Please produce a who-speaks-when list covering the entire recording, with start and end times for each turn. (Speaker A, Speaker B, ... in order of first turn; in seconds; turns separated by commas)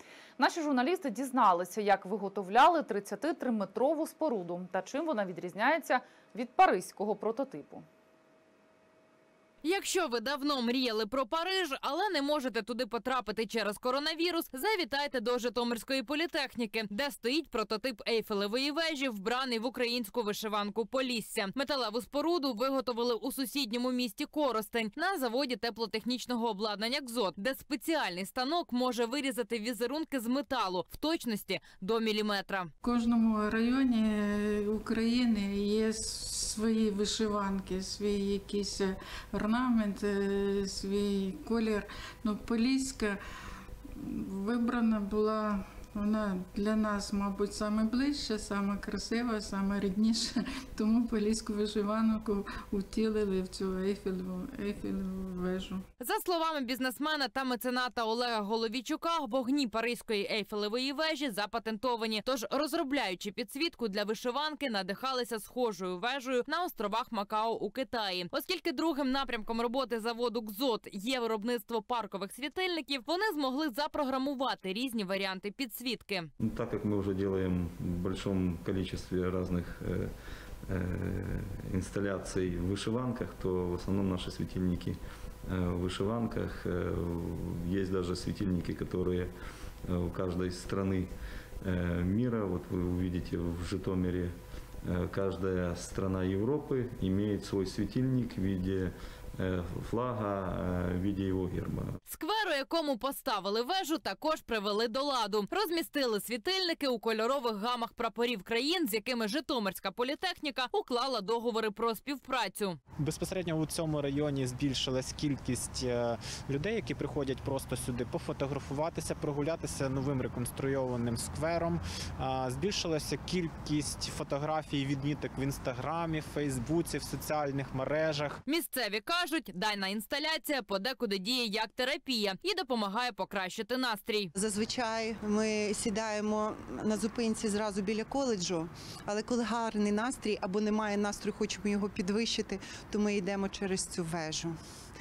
Speaker A: 0.4-7.8, Speaker B: 9.6-32.7, Speaker C: 32.8-43.2, Speaker C: 43.9-55.8, Speaker B: 56.0-76.3, Speaker D: 76.4-80.1, Speaker D: 80.7-89.3, Speaker D: 89.9-91.1, Speaker D: 91.6-94.3, Speaker D: 94.9-101.9, Speaker B: 102.1-112.8, Speaker E: 113.0-128.4, Speaker B: 128.5-134.3, Speaker F: 134.3-144.6